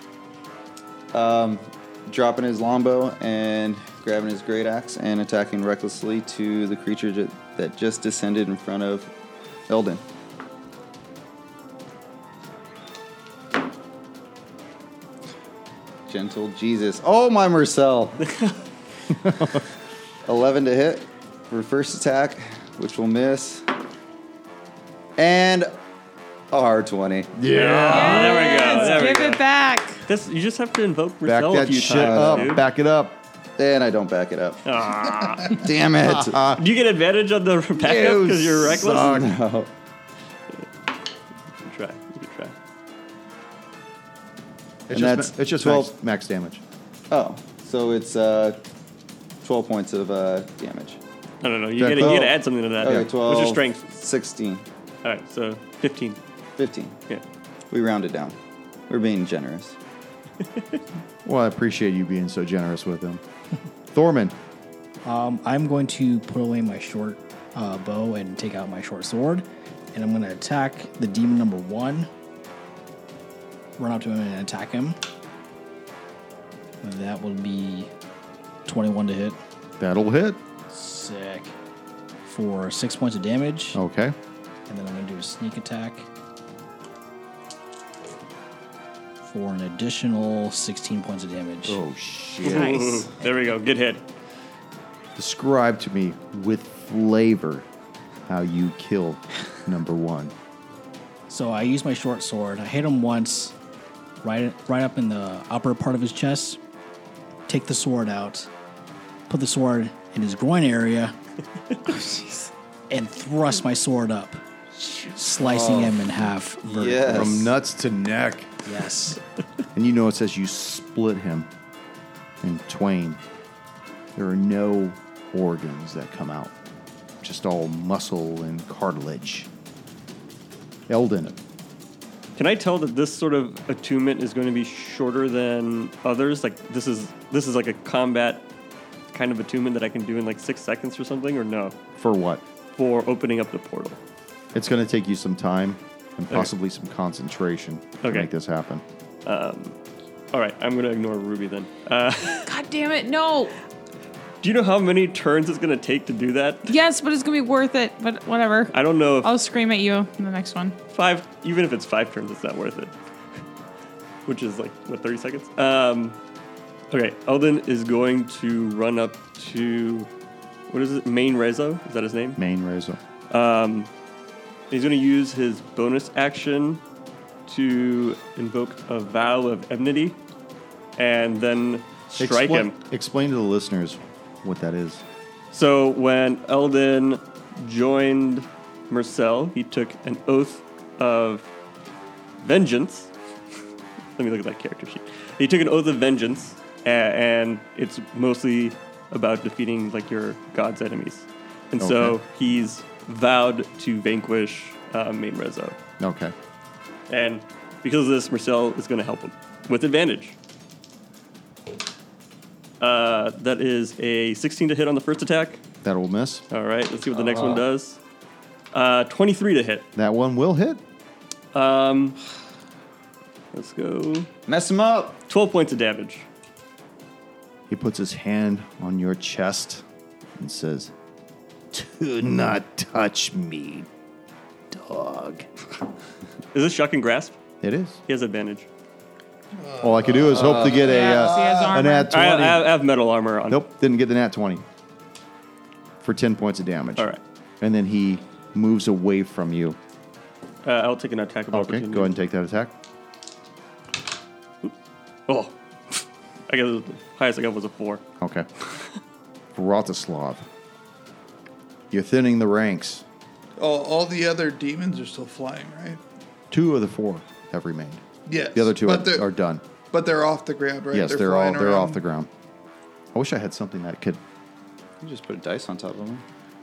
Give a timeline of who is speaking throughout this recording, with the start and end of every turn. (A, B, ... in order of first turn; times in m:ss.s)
0:01.1-0:09.1 A
0:09.7-0:10.0 A
0:16.1-0:18.3 A
0:19.1-0:19.6 B
0:20.2-0:23.7 A
0:25.2-0:25.7 A
0:26.5-0:27.3 A
0:27.4-0:28.7 B
0:27.5-0:29.4 C
0:27.9-0:30.0 D
0:30.0-0:32.6 C
0:31.2-0:33.2 B
0:31.9-0:32.6 A
0:33.6-0:34.7 A
0:34.6-0:35.6 C
0:35.5-0:36.4 A
0:36.1-0:36.6 B
0:36.6-0:39.2 C
0:37.8-0:39.3 B
0:38.7-0:39.7 A
0:41.6-0:42.5 C
0:44.9-0:46.6 B
0:44.9-0:45.9 A
0:47.1-0:48.6 A
0:49.4-0:51.0 A
0:51.4-0:53.9 C
0:51.8-0:52.3 B
0:52.0-0:54.6 A
0:55.0-0:56.2 C
0:56.6-0:57.0 A
0:57.7-0:58.4 A
0:58.9-0:59.8 A
1:01.2-1:03.2 B
1:03.9-1:04.4 B
1:05.0-1:12.1 E
1:13.8-1:15.0 E
1:16.8-1:17.9 E
1:18.6-1:19.4 E
1:19.8-1:20.4 B
1:20.7-1:21.5 E
1:22.2-1:23.8 E
1:23.7-1:24.1 B
1:24.7-1:26.1 E
1:29.2-1:31.8 E
1:31.6-1:33.1 B
1:32.4-1:34.0 C
1:35.2-1:37.6 B
1:38.3-1:40.3 B
1:41.3-1:43.5 E
1:44.2-1:46.6 E
1:47.5-1:48.5 E
1:49.3-1:51.1 E
1:51.9-1:52.5 D
1:52.9-1:54.4 E
1:54.8-1:55.1 D
1:55.1-1:57.5 E
1:55.4-1:56.0 A
1:56.6-1:57.5 A
1:57.1-1:58.5 B
1:58.6-1:59.2 E
1:59.7-2:01.5 B
2:02.4-2:03.2 B
2:04.2-2:06.5 B
2:07.2-2:09.5 B
2:10.9-2:11.4 B
2:12.4-2:18.4 C
2:19.1-2:21.8 C
2:22.0-2:22.4 B
2:22.7-2:24.0 C
2:24.5-2:28.8 B
2:28.0-2:28.3 C
2:29.2-2:29.7 C
2:30.3-2:32.5 C
2:32.4-2:33.5 D
2:34.4-2:36.7 C
2:36.6-2:40.8 D
2:38.7-2:39.3 C
2:40.9-2:42.9 C
2:44.2-2:46.2 C
2:46.9-2:50.1 C
2:50.7-2:52.4 C
2:52.4-2:53.0 B
2:53.3-2:53.9 C
2:54.7-2:56.8 C
2:57.5-3:00.2 C
3:01.0-3:02.7 C
3:02.2-3:05.0 B
3:05.5-3:11.4 C
3:12.4-3:13.1 C
3:14.2-3:25.8 C
3:21.8-3:22.2 B
3:26.0-3:26.3 B
3:27.1-3:30.4 C
3:32.8-3:35.6 C
3:35.8-3:36.4 B
3:36.5-3:38.0 C
3:37.1-3:37.6 A
3:38.7-3:39.9 C
3:39.9-3:40.8 B
3:41.5-3:42.2 C
3:43.5-3:44.3 C
3:44.5-3:45.2 A
3:45.3-3:46.2 C
3:47.7-3:49.8 B
3:50.4-3:50.9 B
3:51.7-3:53.9 B
3:54.7-3:55.5 B
3:56.5-3:57.3 C
3:57.6-3:58.0 B
3:58.1-3:58.7 C
3:59.5-4:01.8 F
3:59.8-4:02.7 B
4:00.3-4:00.7 A
4:00.7-4:02.1 D
4:02.1-4:03.6 C
4:03.5-4:04.6 B
4:06.0-4:07.1 B
4:07.6-4:09.8 B
4:10.6-4:12.1 C
4:11.5-4:12.7 B
4:15.3-4:18.0 C
4:18.2-4:18.5 B
4:19.5-4:20.4 B
4:21.9-4:23.0 B
4:23.6-4:26.0 F
4:26.5-4:29.6 B
4:28.2-4:29.3 F
4:29.9-4:32.0 F
4:30.9-4:32.3 B
4:33.1-4:34.2 B
4:35.0-4:36.2 A